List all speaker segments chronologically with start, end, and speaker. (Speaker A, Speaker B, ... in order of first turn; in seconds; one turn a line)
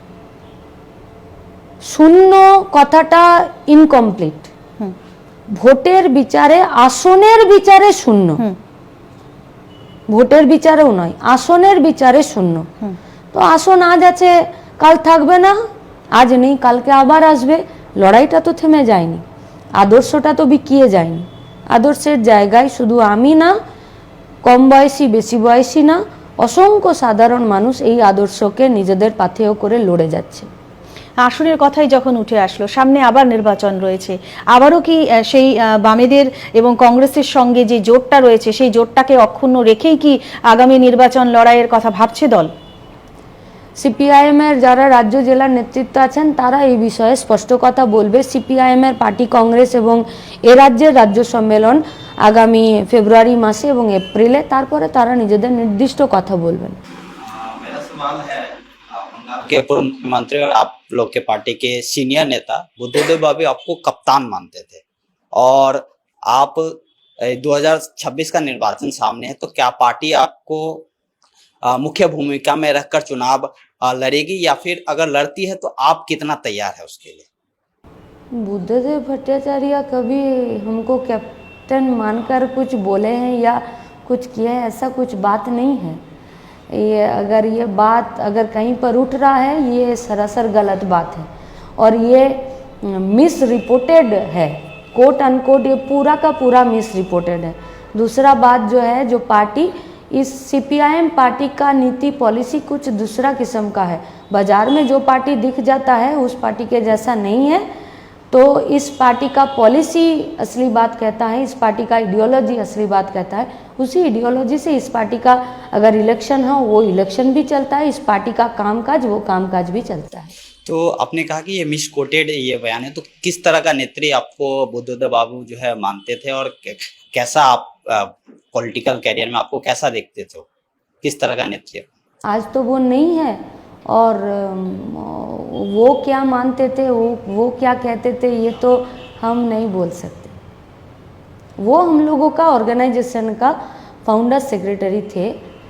Speaker A: 1.8-4.5
Speaker A: 5.5-8.4
Speaker A: 10.1-12.7
Speaker A: 13.3-15.6
Speaker A: 16.1-19.2
Speaker A: 19.8-23.6
Speaker A: 24.4-30.5
Speaker B: 31.2-42.5
Speaker A: 43.8-56.8
Speaker C: 57.2-64.8
Speaker C: 65.3-70.9
Speaker C: 71.6-77.3
Speaker A: 78.3-86.0
Speaker A: 86.7-91.3
Speaker A: 91.8-107.7
Speaker A: 108.3-120.3
Speaker C: 120.7-130.4
Speaker C: 131.0-131.9
Speaker A: 132.2-140.4
Speaker A: 141.6-145.4